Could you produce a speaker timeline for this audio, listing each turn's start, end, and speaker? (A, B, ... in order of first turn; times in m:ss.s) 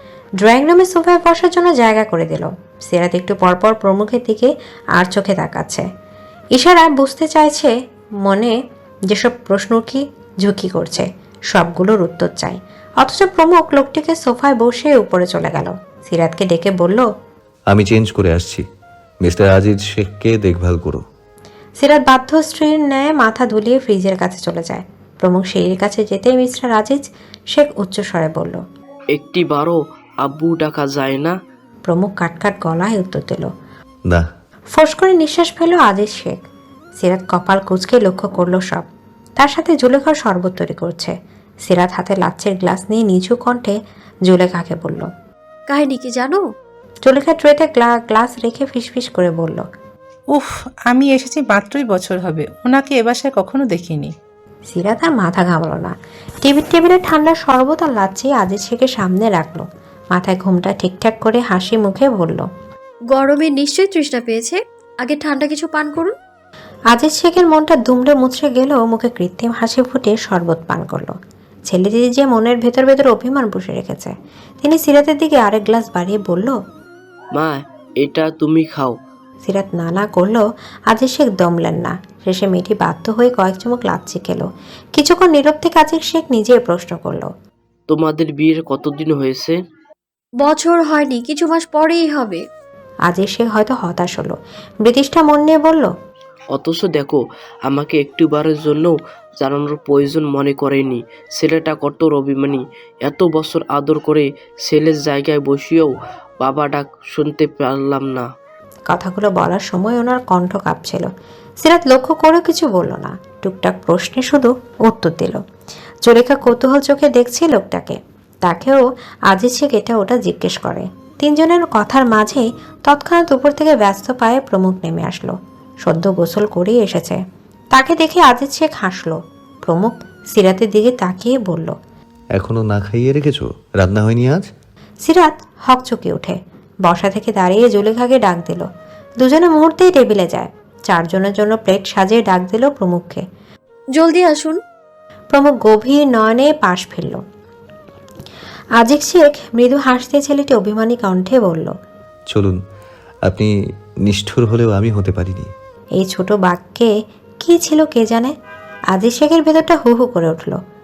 0:00.4-0:05.8 A
0:06.6-0:07.7 A
0:08.2-0:08.5 A
0:09.1-0:17.0 A
0:17.7-0:18.6 B
0:19.2-0:21.0 B
0:21.8-0:27.0 A
0:27.5-0:28.6 A
0:29.1-0:31.4 C
0:31.9-0:33.5 A
0:34.8-0:36.4 A
0:37.0-0:38.8 A
0:39.4-0:41.1 A
0:41.7-0:43.7 A
0:44.3-0:45.1 A
0:45.7-0:46.4 D
0:47.1-0:49.6 A
0:50.3-0:54.1 E
0:54.7-1:02.4 A
1:03.1-1:06.1 D
1:06.9-1:11.1 A
1:11.7-1:14.1 A
1:14.6-1:16.6 A
1:17.3-1:18.9 C
1:19.4-1:24.4 A
1:25.0-1:27.3 A
1:27.9-1:29.6 C
1:30.4-1:32.4 D
1:33.1-1:35.9 A
1:36.5-1:48.3 C
1:48.9-1:51.1 A
1:51.6-1:55.4 A
1:56.0-2:07.2 A
2:07.7-2:11.7 A
2:12.3-2:14.4 B
2:15.0-2:18.7 A
2:19.2-2:23.2 A
2:24.0-2:24.6 D
2:25.3-2:27.2 A
2:28.8-2:31.7 A
2:32.3-2:32.6 B
2:33.2-2:33.5 B
2:34.0-2:35.5 B
2:36.0-2:36.9 A
2:37.4-2:38.3 A
2:38.9-2:40.6 A